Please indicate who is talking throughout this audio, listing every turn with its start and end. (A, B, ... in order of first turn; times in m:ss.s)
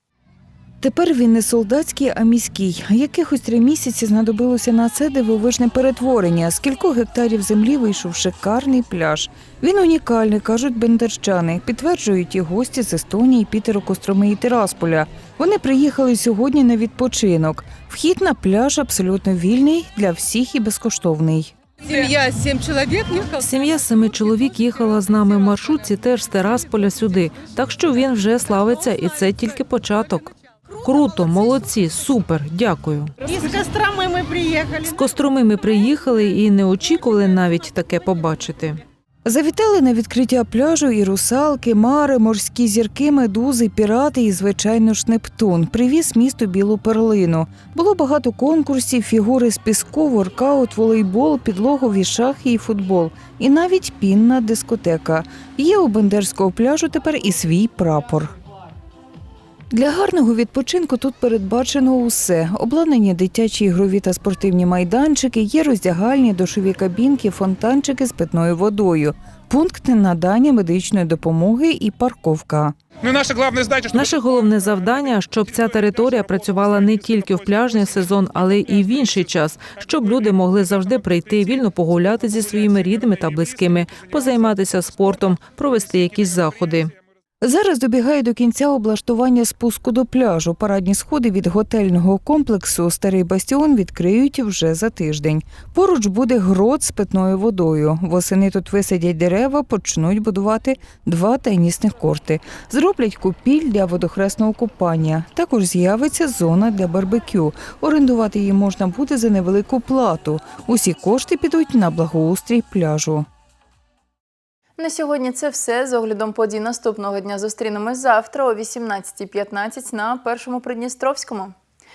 0:00.8-0:21.5 A
0:21.9-0:23.4 B
0:23.4-0:33.1 C
0:33.2-0:35.0 B
0:34.8-0:38.8 C
0:39.2-0:58.3 A
0:59.7-1:12.8 A
1:13.0-1:19.3 D
1:13.9-1:26.9 C
1:22.7-1:24.1 D
1:27.4-1:53.3 A
1:54.8-2:01.5 E